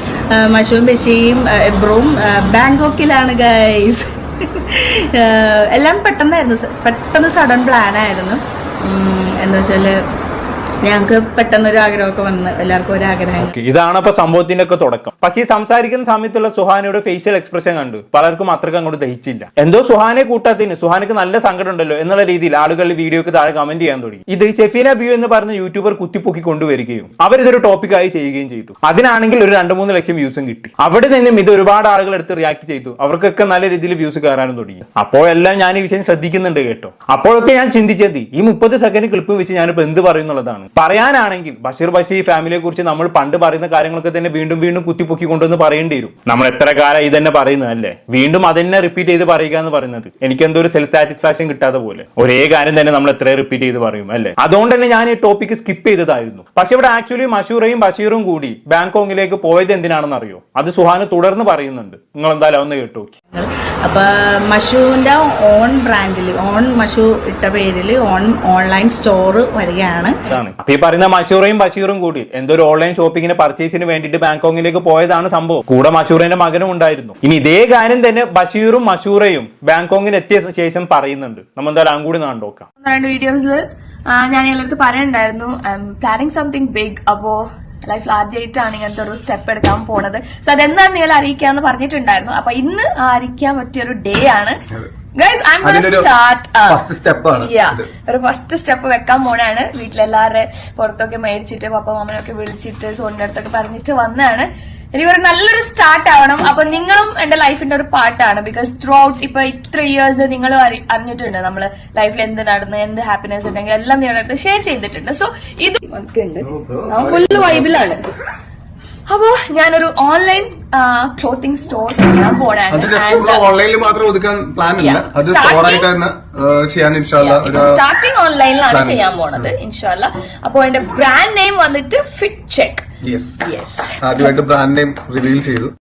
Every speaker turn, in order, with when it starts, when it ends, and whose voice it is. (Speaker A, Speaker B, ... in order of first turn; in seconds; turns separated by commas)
Speaker A: 0.4-10.0, Speaker A: 10.8-13.5, Speaker B: 13.4-63.1, Speaker A: 63.3-70.1, Speaker B: 70.3-82.7, Speaker C: 82.8-94.6, Speaker C: 95.2-96.9, Speaker D: 95.6-96.1, Speaker D: 96.7-97.9, Speaker C: 97.4-118.0, Speaker D: 116.5-117.8, Speaker C: 119.1-123.5, Speaker D: 122.7-127.8, Speaker C: 124.8-125.9, Speaker C: 127.2-132.8, Speaker D: 128.7-129.4, Speaker C: 133.4-134.4, Speaker D: 134.0-135.7